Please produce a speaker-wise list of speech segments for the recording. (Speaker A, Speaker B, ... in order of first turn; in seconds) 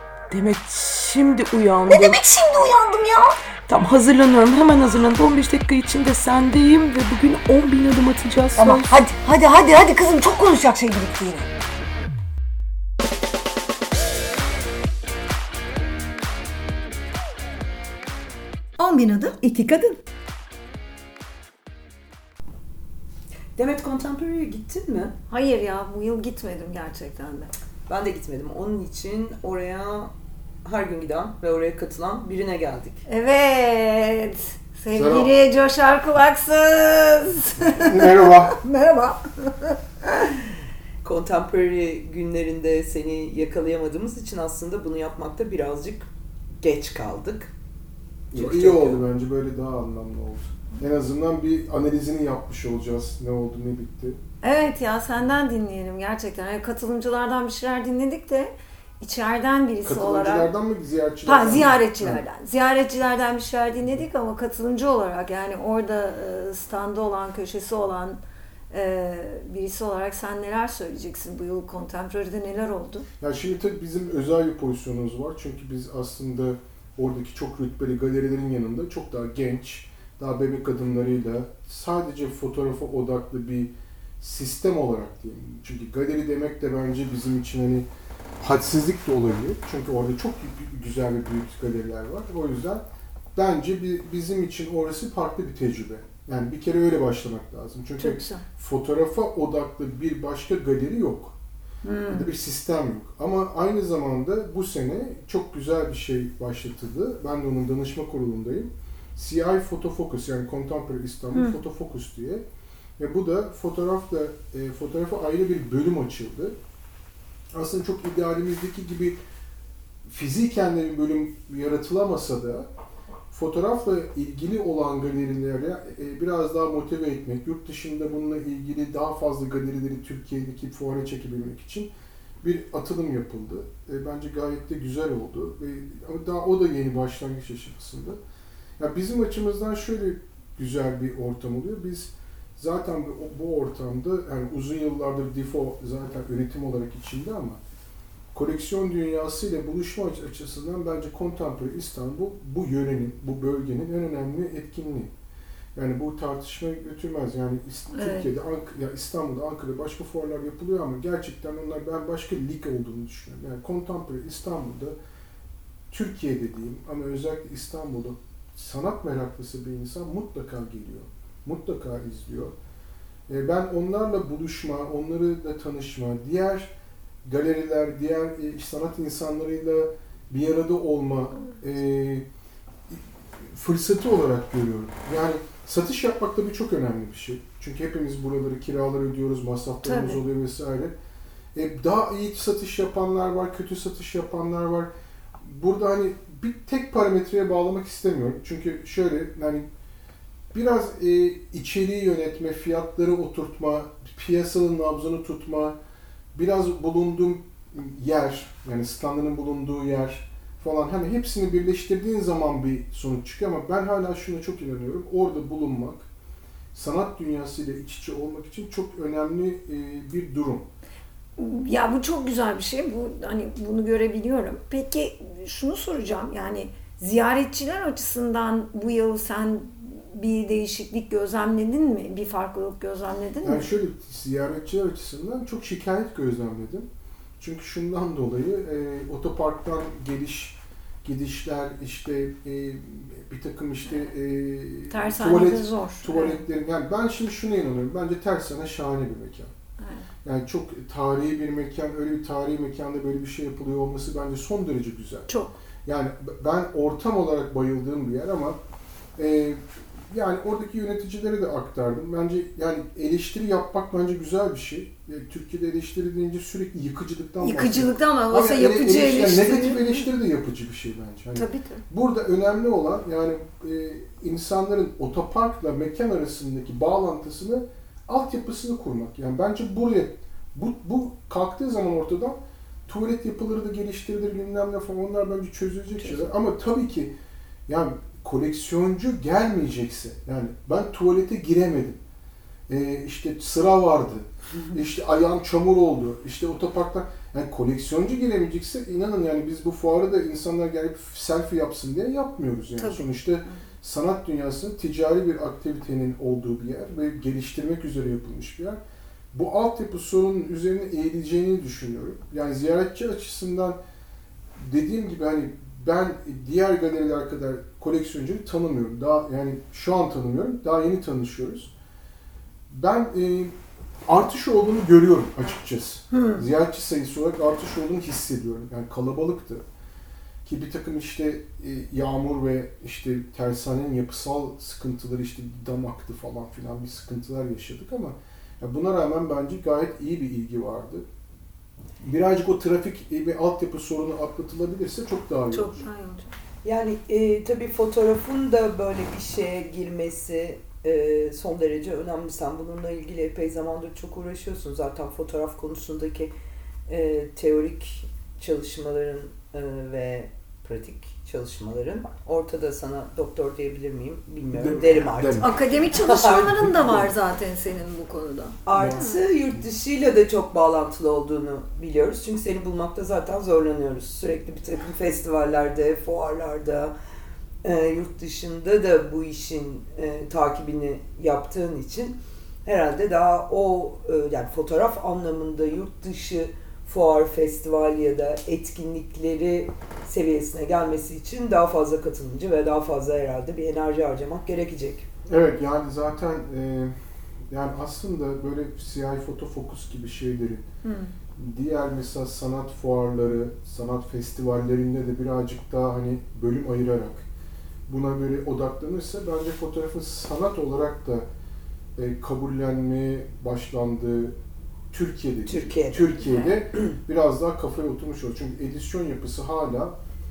Speaker A: 0.3-2.2, 3.7-8.9, 19.5-19.8, 23.6-25.1, 27.9-30.1, 30.6-33.0, 41.0-46.1, 46.6-47.5, 48.3-49.0, 346.6-356.3, 356.9-366.8, 368.6-376.9, 377.6-395.1, 415.5-416.2
Speaker B: 1.9-3.4, 8.6-11.5, 18.8-19.9, 25.3-27.5, 33.1-40.4, 54.4-60.5, 61.2-68.2, 68.7-73.1, 98.0-98.4, 101.8-102.3, 157.9-158.3, 189.8-190.2, 221.4-233.7, 244.9-246.4, 249.8-250.1, 255.3-255.5, 267.4-270.1, 271.3-271.8, 302.8-303.6, 326.1-326.4, 345.5-346.3, 365.4-369.2, 400.8-401.1, 416.2-416.5
Speaker C: 34.9-35.3, 37.6-38.6, 48.3-54.2, 59.8-62.2, 73.2-87.9, 88.4-92.8, 93.3-101.3, 102.1-112.4, 113.0-116.5, 117.5-119.2, 120.0-122.7, 123.3-131.9, 132.4-138.2, 138.8-147.6, 148.3-155.1, 155.7-164.9, 165.9-172.5, 173.3-176.7, 177.2-182.2, 182.9-190.9, 191.5-199.7, 200.5-205.8, 206.3-216.1, 216.7-220.7, 233.4-236.9, 237.4-249.5, 250.2-255.3, 255.8-258.6, 259.2-287.1, 287.7-292.0, 292.7-308.8, 309.3-313.8, 314.6-321.7, 322.7-329.6, 330.4-341.0, 342.0-345.8, 364.5-365.5, 366.6-367.1, 368.7-369.6, 395.2-396.9, 397.5-400.6, 401.4-407.2, 407.9-411.2, 411.9-414.3, 414.9-419.9